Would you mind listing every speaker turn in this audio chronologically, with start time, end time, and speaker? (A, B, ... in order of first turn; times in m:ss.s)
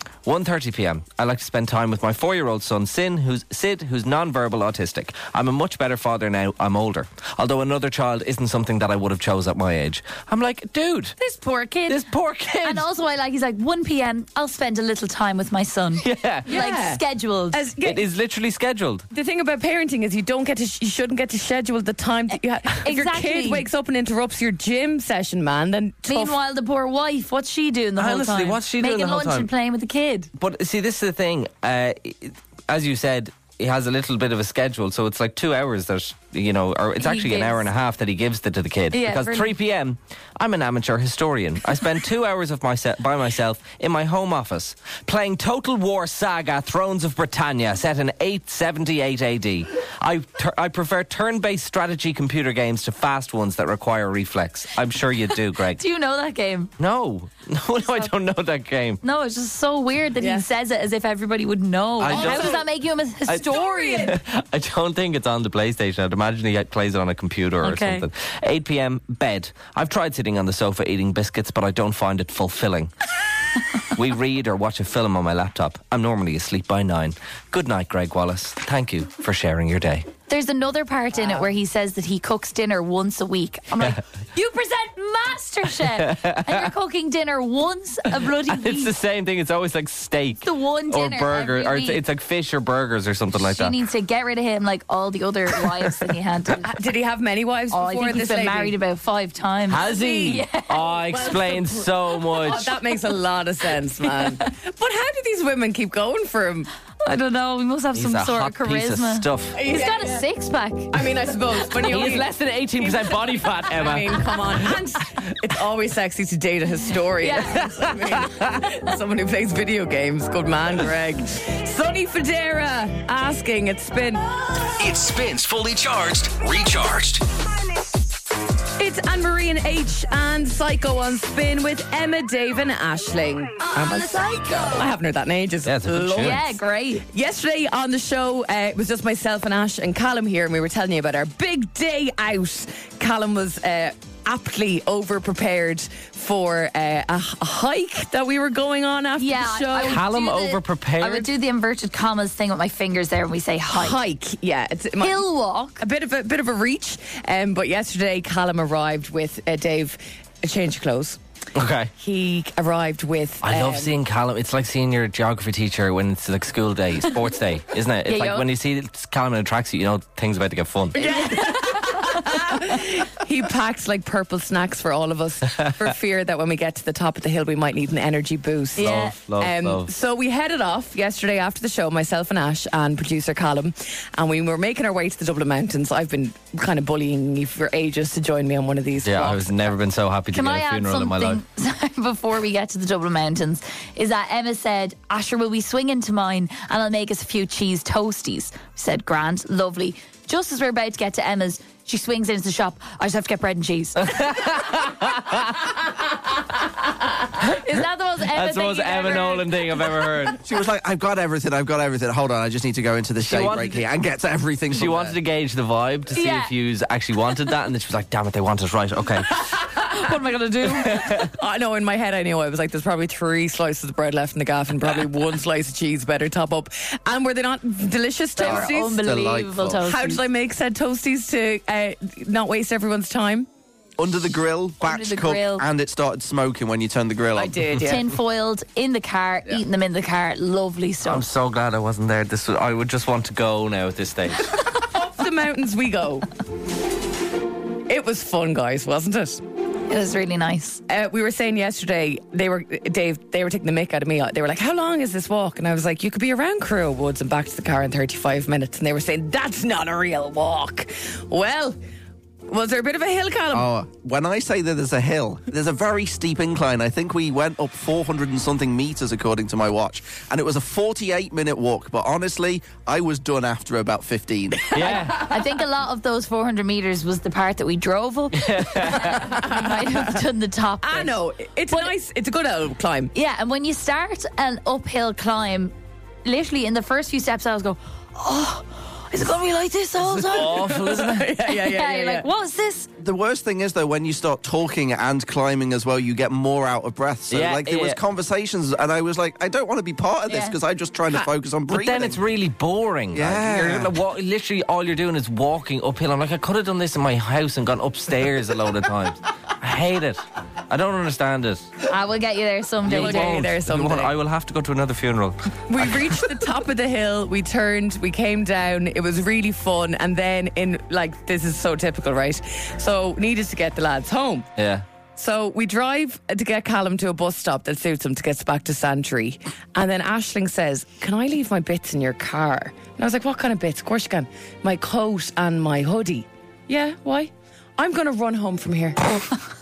0:00.2-0:11.2 A
0:11.2-0:12.0 B
0:11.9-0:12.8 A
0:12.6-0:17.7 B
0:16.0-0:16.6 A
0:16.5-0:18.0 C
0:17.8-0:19.1 A
0:19.1-0:26.4 C
0:22.7-0:23.6 B
0:26.0-0:30.3 B
0:28.0-0:29.5 A
0:30.4-0:55.8 A
0:37.0-0:37.6 B
0:38.9-0:39.5 B
0:55.8-0:56.7 B
0:56.8-0:59.0 A
0:59.0-1:04.1 B
1:00.2-1:00.4 C
1:02.0-1:02.6 A
1:02.1-1:02.6 C
1:03.3-1:12.9 A
1:03.5-1:04.1 C
1:07.6-1:08.1 B
1:13.9-1:20.1 A
1:20.3-1:28.9 B
1:25.9-1:26.7 A
1:28.5-1:33.8 A
1:30.4-1:32.0 B
1:33.4-1:36.7 B
1:36.6-1:38.7 C
1:37.7-1:41.0 B
1:39.7-1:42.8 A
1:39.8-1:40.4 C
1:41.0-1:46.7 C
1:47.0-1:51.0 B
1:47.9-1:49.6 A
1:49.5-1:50.2 C
1:50.9-2:04.2 C
1:51.8-1:54.8 A
1:57.2-1:57.6 B
1:57.6-1:58.6 A
2:04.8-2:07.2 D
2:08.8-2:30.0 C
2:15.6-2:16.4 A
2:16.2-2:17.0 B
2:29.2-2:34.0 B
2:29.8-2:31.3 A
2:33.7-2:35.2 C
2:35.0-2:35.8 B
2:35.8-2:41.2 C
2:41.5-2:41.9 A
2:42.0-2:43.9 C
2:43.4-2:51.1 A
2:48.1-2:48.5 B
2:51.0-3:09.7 C
2:51.0-2:51.8 B
2:58.8-2:59.1 B
2:58.8-2:59.9 A
3:09.0-3:11.4 A
3:10.3-3:24.2 B
3:24.1-3:25.5 A
3:27.4-3:29.8 B
3:28.3-3:30.4 A
3:30.4-3:35.2 E
3:33.2-3:33.8 A
3:34.7-3:39.4 A
3:36.1-3:36.5 B
3:39.8-3:41.2 B
3:40.8-3:41.3 A
3:41.3-3:49.0 C
3:48.4-3:50.2 B
3:48.4-3:49.8 E
3:49.8-3:53.5 C
3:54.0-3:57.6 E
3:54.8-3:55.6 B
3:57.3-3:58.1 C
3:57.8-4:01.2 B
4:01.0-4:04.5 A
4:04.7-4:06.3 C
4:07.9-4:09.4 C
4:09.9-4:10.8 B
4:10.9-4:21.8 C
4:22.5-4:23.7 C
4:23.5-4:35.0 E
4:34.7-4:35.3 A
4:34.9-4:41.2 B
4:38.3-4:39.3 A
4:39.2-4:40.2 C
4:40.8-4:43.1 C
4:43.1-4:45.7 B
4:46.2-4:50.7 B
4:50.1-4:51.3 A
4:50.2-4:52.2 C
4:51.4-4:52.9 B
4:53.0-5:02.2 E
4:57.3-4:58.0 A
5:00.3-5:00.6 B
5:01.7-5:11.7 A
5:03.1-5:04.0 E
5:11.9-5:13.4 B
5:12.8-5:16.2 A
5:12.8-5:14.1 C
5:15.7-5:24.5 C
5:24.6-5:24.8 A
5:25.2-5:39.2 C